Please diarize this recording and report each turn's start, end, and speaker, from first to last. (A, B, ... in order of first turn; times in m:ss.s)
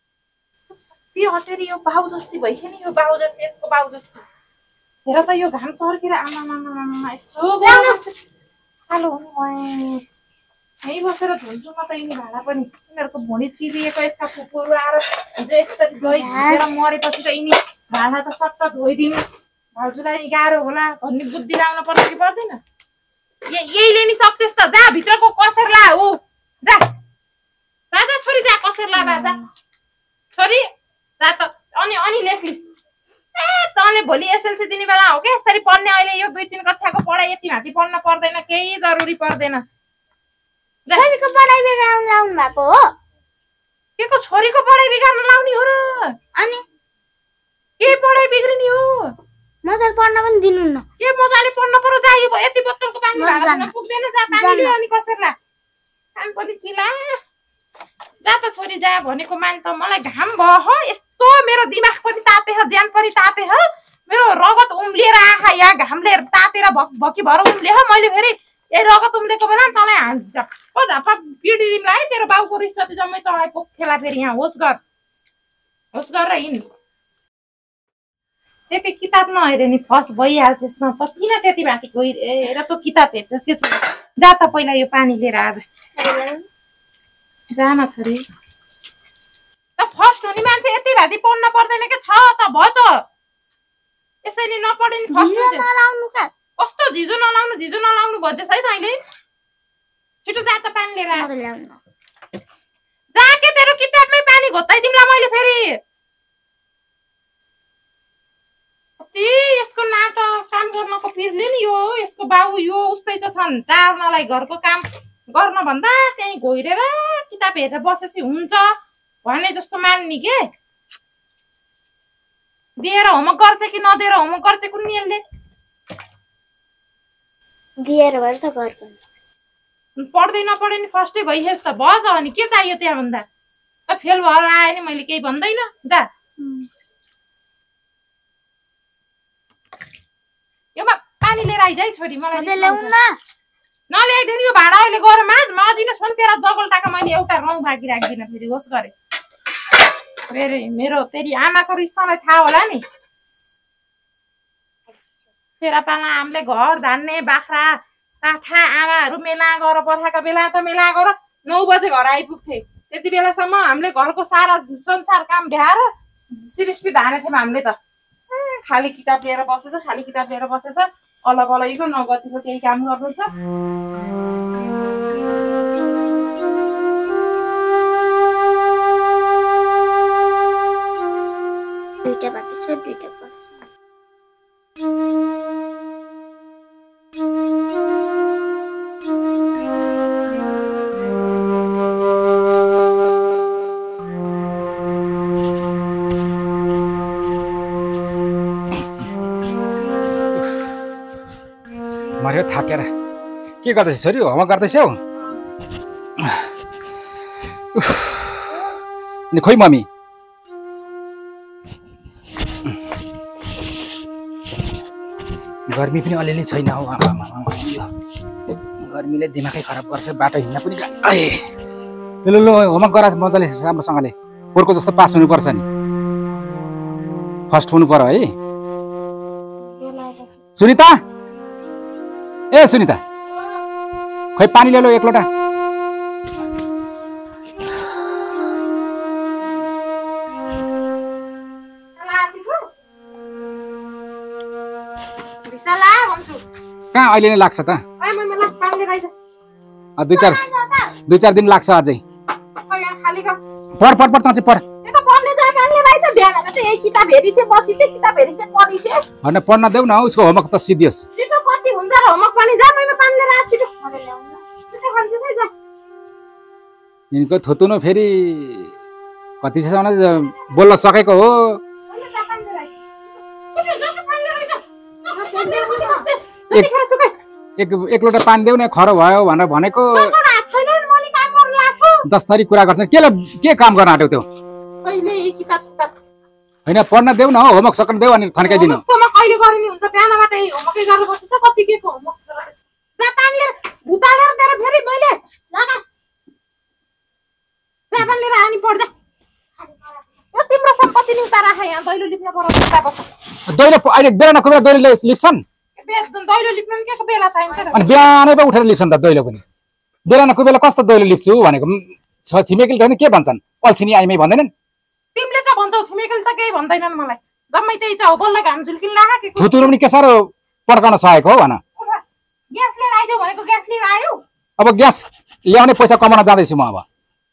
0:01.1-0:04.2 A
0:05.1-0:08.1 A
0:07.6-0:08.0 B
0:08.9-0:10.0 A
0:10.8-0:19.2 A
0:16.1-0:16.7 B
0:19.8-0:22.6 A
0:23.5-0:26.9 A
0:27.9-0:29.4 A
0:29.0-0:29.5 B
0:30.4-0:30.7 A
0:31.2-0:32.6 A
0:33.4-0:39.6 A
0:41.0-0:42.9 B
0:44.0-0:46.1 A
0:46.4-0:46.6 B
0:47.8-0:49.1 A
0:49.6-0:50.8 B
0:51.0-0:55.4 A
0:53.2-0:53.7 B
0:54.3-0:54.7 B
0:56.2-0:57.2 A
0:58.2-1:14.8 A
1:16.0-1:16.6 A
1:18.7-1:25.6 A
1:26.0-1:26.5 B
1:27.5-1:28.2 A
1:29.8-1:33.0 A
1:34.2-1:35.7 A
1:35.1-1:36.3 B
1:36.6-1:39.0 A
1:40.3-1:41.3 A
1:41.2-1:41.8 B
1:43.2-1:45.8 A
1:49.0-1:58.7 A
1:59.2-2:00.4 A
2:02.8-2:05.2 A
2:07.8-2:09.0 B
2:10.0-2:13.3 A
2:13.9-2:16.1 A
2:16.4-2:16.7 B
2:20.8-2:22.9 A
2:22.4-2:23.2 B
2:23.9-2:29.0 A
2:30.3-2:32.8 A
2:35.6-2:47.8 A
2:48.3-2:53.3 A
3:02.1-3:03.5 B
3:22.2-3:22.9 C
3:23.6-3:25.0 C
3:26.2-3:26.4 C
3:27.7-3:28.4 C
3:29.3-3:29.9 C
3:35.7-3:37.9 C
3:38.8-3:41.4 C
3:42.2-3:45.6 C
3:47.5-3:48.3 C
3:49.8-3:50.4 A
3:50.6-3:51.0 C
3:52.5-3:53.0 C
3:54.4-3:55.3 C
4:02.0-4:02.7 A
4:05.5-4:06.4 A
4:06.9-4:07.8 C
4:08.0-4:09.1 A
4:10.0-4:10.4 C
4:10.1-4:10.9 B
4:11.1-4:12.0 C
4:12.7-4:13.4 A
4:13.8-4:14.6 C
4:14.8-4:19.0 A
4:19.2-4:21.0 C
4:21.2-4:23.7 A
4:23.8-4:24.4 B
4:24.7-4:25.5 A
4:27.1-4:28.7 C
4:29.4-4:31.6 C
4:31.9-4:32.8 A
4:33.5-4:37.1 A
4:35.1-4:36.0 B
4:37.6-4:40.2 C
4:39.9-4:42.1 A
4:42.1-4:44.3 C
4:44.8-4:45.9 A
4:46.7-4:48.8 C
4:48.4-4:55.2 A
4:55.5-4:55.8 B
4:57.9-4:58.9 A
5:00.3-5:03.1 A
5:03.5-5:05.4 C
5:05.8-5:08.0 A
5:07.7-5:09.4 C
5:10.1-5:14.5 C
5:15.2-5:19.7 A
5:19.4-5:21.6 C
5:22.5-5:24.2 A
5:24.6-5:26.8 C